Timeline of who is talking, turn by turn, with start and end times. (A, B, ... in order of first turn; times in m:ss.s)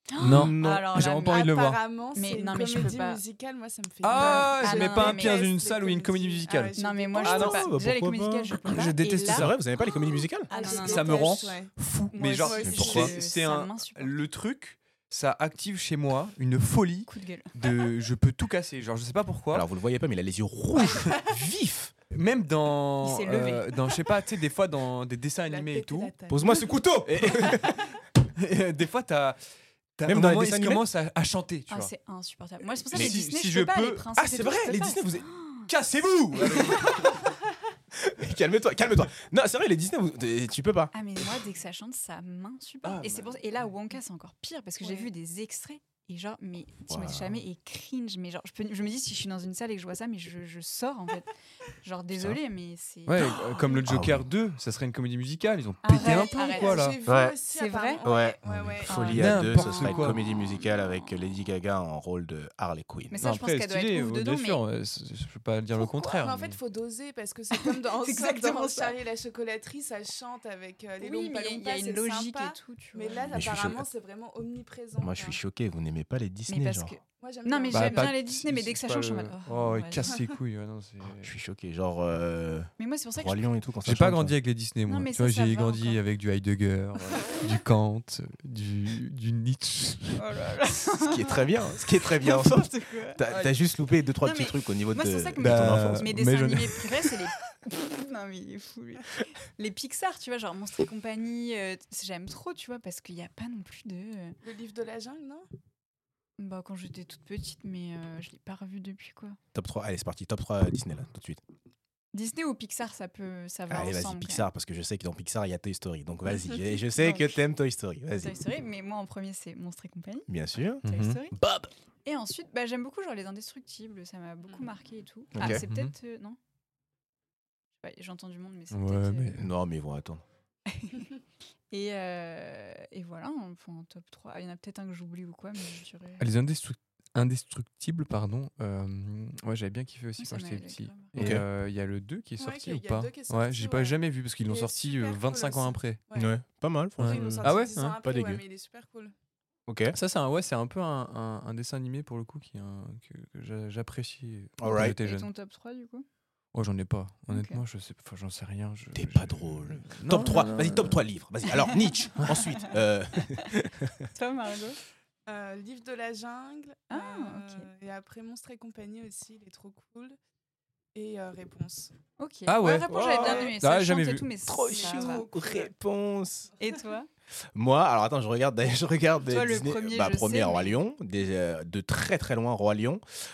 0:00.1-0:01.6 A
0:00.2-0:01.1 B
0:00.2-0:01.8 C
0:01.0-0:07.5 D
0:02.1-0:03.2 A
0:04.0-0:07.7 C
0:04.1-0:05.5 A
0:06.8-0:11.5 A
0:07.2-0:10.5 B
0:08.6-0:09.6 C
0:10.5-0:11.7 D
0:10.6-0:19.7 C
0:12.1-0:14.2 A
0:12.4-0:13.1 D
0:12.7-0:13.1 B
0:17.1-0:17.5 A
0:19.5-0:21.9 B
0:22.1-0:26.1 C
0:23.0-0:23.7 A
0:25.5-0:26.7 D
0:26.3-0:27.8 B
0:27.0-0:29.4 C
0:30.0-0:31.9 C
0:30.0-0:30.8 B
0:31.7-0:35.7 A
0:32.9-0:34.1 C
0:34.2-0:35.7 B
0:35.7-0:37.2 C
0:37.9-0:41.2 B
0:40.9-0:51.3 A
0:42.8-0:43.4 C
0:44.8-0:45.1 D
0:46.9-0:47.4 B
0:51.8-0:53.8 A
0:52.1-0:52.4 B
0:53.1-0:57.0 C
0:53.9-0:54.3 B
0:55.8-0:56.9 A
0:55.9-0:59.1 D
0:57.0-0:57.4 B
0:57.5-0:58.0 A
0:58.0-1:03.2 B
0:58.5-1:00.2 C
0:58.8-1:01.0 A
1:03.1-1:04.6 A
1:03.2-1:06.6 C
1:05.8-1:15.4 D
1:07.5-1:09.0 A
1:11.0-1:13.7 A
1:13.3-1:13.8 B
1:15.0-1:16.9 B
1:16.5-1:20.1 A
1:17.2-1:18.1 D
1:17.7-1:21.3 C
1:21.2-1:24.3 B
1:22.8-1:23.4 A
1:23.8-1:30.2 C
1:24.8-1:26.0 A
1:30.2-1:31.4 A
1:30.9-1:36.1 B
1:32.1-1:33.2 A
1:34.2-1:44.4 A
1:35.4-1:37.2 C
1:44.4-1:45.5 D
1:46.4-1:49.4 A
1:49.5-1:51.4 B
1:52.1-1:54.5 A
1:53.7-1:58.4 B
1:56.9-1:57.4 A
1:58.1-2:00.3 A
2:00.3-2:00.8 B
2:00.8-2:01.2 C
2:00.8-2:01.4 A
2:01.3-2:01.7 B
2:02.0-2:06.4 A
2:05.3-2:05.6 B
2:05.4-2:05.9 C
2:07.8-2:09.4 A
2:08.7-2:09.5 C
2:09.4-2:10.2 B
2:10.7-2:11.1 A
2:11.7-2:16.2 A
2:16.2-2:26.0 C
2:20.2-2:21.1 A
2:21.1-2:21.4 B
2:22.4-2:26.3 D
2:26.1-2:27.5 B
2:27.0-2:28.0 C
2:27.0-2:29.1 D
2:28.0-2:28.4 B
2:29.7-2:30.0 B
2:29.9-2:35.3 C
2:34.6-2:35.0 B
2:34.7-2:36.0 A
2:36.5-2:41.0 C
2:37.3-2:37.6 A
2:38.9-2:44.0 B
2:43.2-2:43.5 A
2:44.1-2:44.8 A
2:45.3-2:50.2 D
2:46.9-2:47.7 A
2:50.9-2:51.9 D
2:52.2-2:55.3 A
2:52.5-2:54.3 C
2:52.9-2:53.5 B
2:53.2-2:53.5 D
2:54.4-2:56.5 B
2:54.7-2:55.7 D
2:56.6-2:57.1 A
2:57.5-3:03.0 B
2:59.2-3:00.8 A